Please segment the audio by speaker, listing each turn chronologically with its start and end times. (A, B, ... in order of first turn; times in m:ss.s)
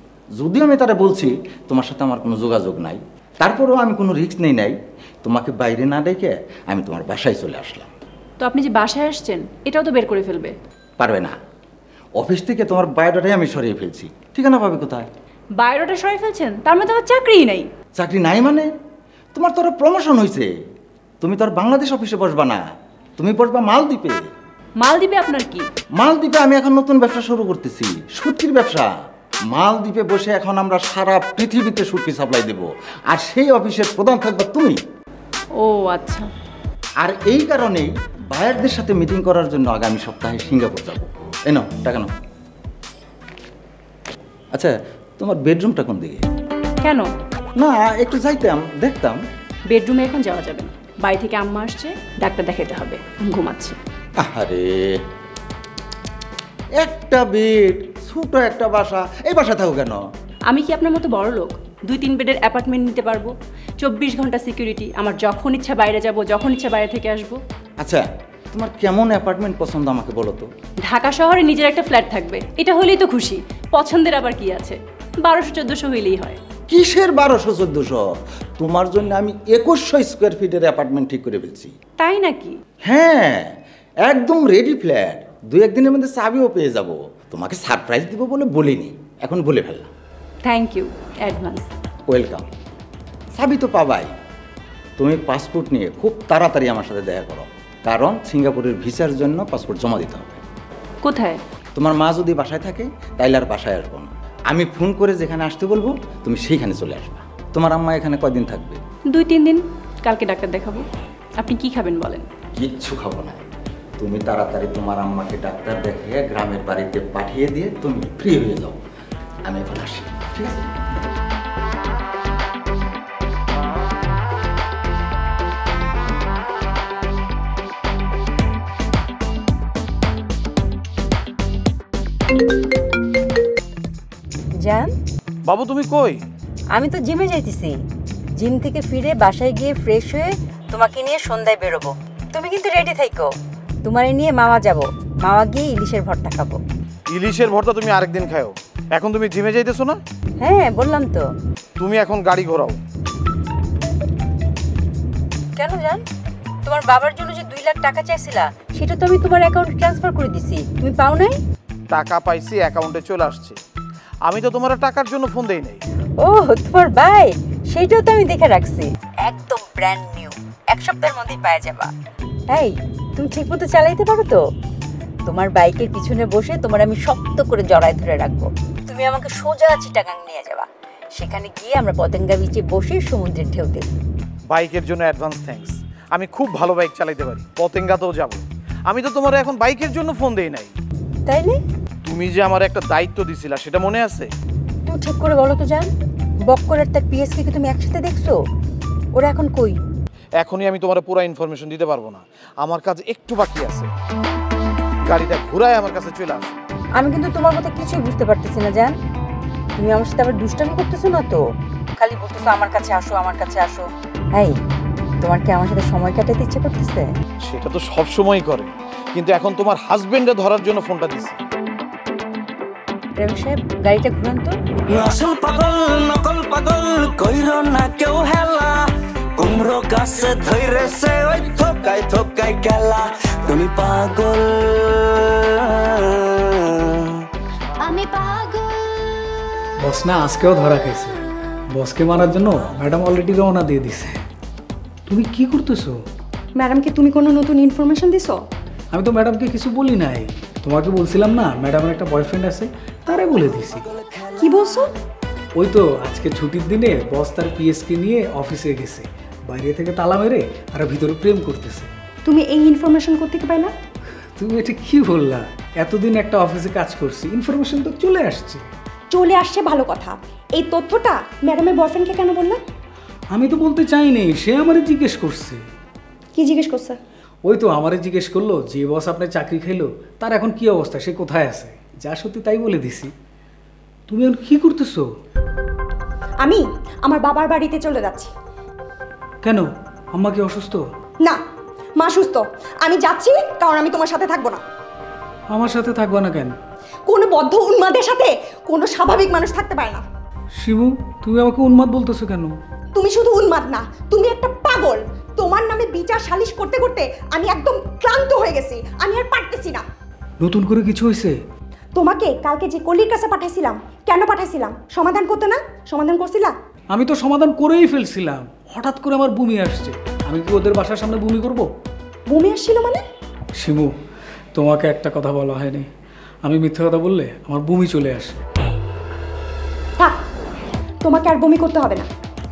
0:00.4-0:07.9 A
0:08.4-0:10.5 B
0:11.0-0:11.4 A
0:12.2-0:15.1 A
0:15.6-0:17.7 B
0:17.9-0:18.7 A
0:19.3-0:20.5 A
0:21.2-0:24.3 A
0:24.8-0:25.7 B
0:26.0-0:28.9 A
0:29.5-0:34.8 A
0:35.6-0:36.3 B
0:37.0-0:42.1 A
0:44.5-0:46.2 A
0:46.8-0:47.1 B
0:47.6-0:49.2 A
0:49.7-0:53.8 B
0:54.2-0:55.0 A
0:56.8-1:00.0 A
1:00.5-1:07.4 B
1:07.8-1:10.5 A
1:10.8-1:16.4 B
1:16.7-1:18.0 A
1:18.6-1:21.7 A
1:22.0-1:22.6 B
1:22.8-1:29.9 A
1:30.4-1:31.7 B
1:32.1-1:32.5 A
1:33.4-1:34.1 A
1:35.0-1:40.4 A
1:41.0-1:41.4 B
1:41.8-1:48.8 A
1:49.1-1:50.8 B
1:51.4-1:52.3 B
1:52.5-1:53.4 A
1:54.0-1:58.8 A
1:59.4-2:00.7 A
2:14.6-2:14.9 C
2:15.5-2:16.2 D
2:16.7-2:17.8 C
2:18.4-2:23.3 C
2:23.8-2:26.6 C
2:27.1-2:30.0 D
2:30.4-2:31.3 C
2:31.8-2:32.8 D
2:35.6-2:36.0 C
2:36.6-2:41.4 C
2:41.9-2:43.6 D
2:44.2-2:45.8 D
2:46.2-2:51.9 C
2:52.5-2:54.4 C
2:55.3-3:03.9 C
3:04.5-3:10.7 D
3:11.3-3:11.6 C
3:12.0-3:14.3 D
3:14.9-3:15.9 C
3:16.5-3:18.4 C
3:19.1-3:19.8 C
3:20.4-3:23.9 D
3:25.1-3:26.6 D
3:27.0-3:29.0 C
3:29.8-3:31.4 C
3:32.0-3:34.6 C
3:35.2-3:37.1 C
3:37.4-3:41.4 D
3:43.2-3:44.6 C
3:44.9-3:48.9 E
3:49.4-3:57.2 E
3:57.9-3:58.4 E
3:59.8-4:01.2 F
4:01.7-4:04.2 F
4:05.1-4:06.0 F
4:06.6-4:08.4 G
4:08.9-4:13.9 F
4:14.4-4:14.9 G
4:15.6-4:21.9 F
4:22.2-4:23.7 G
4:24.4-4:28.7 F
4:29.1-4:32.6 G
4:33.3-4:35.6 F
4:36.4-4:37.0 G
4:37.5-4:43.1 F
4:44.1-4:45.1 F
4:46.4-4:48.3 G
4:49.4-4:50.8 F
4:52.0-4:54.6 G
4:55.5-4:56.6 F
4:57.1-5:00.0 G
5:00.6-5:02.6 F
5:02.9-5:09.8 G
5:10.4-5:11.4 F
5:11.9-5:16.6 G
5:16.9-5:21.7 F
5:22.3-5:23.0 G
5:23.6-5:23.9 F
5:24.5-5:25.9 F
5:26.4-5:28.4 F
5:31.0-5:32.1 G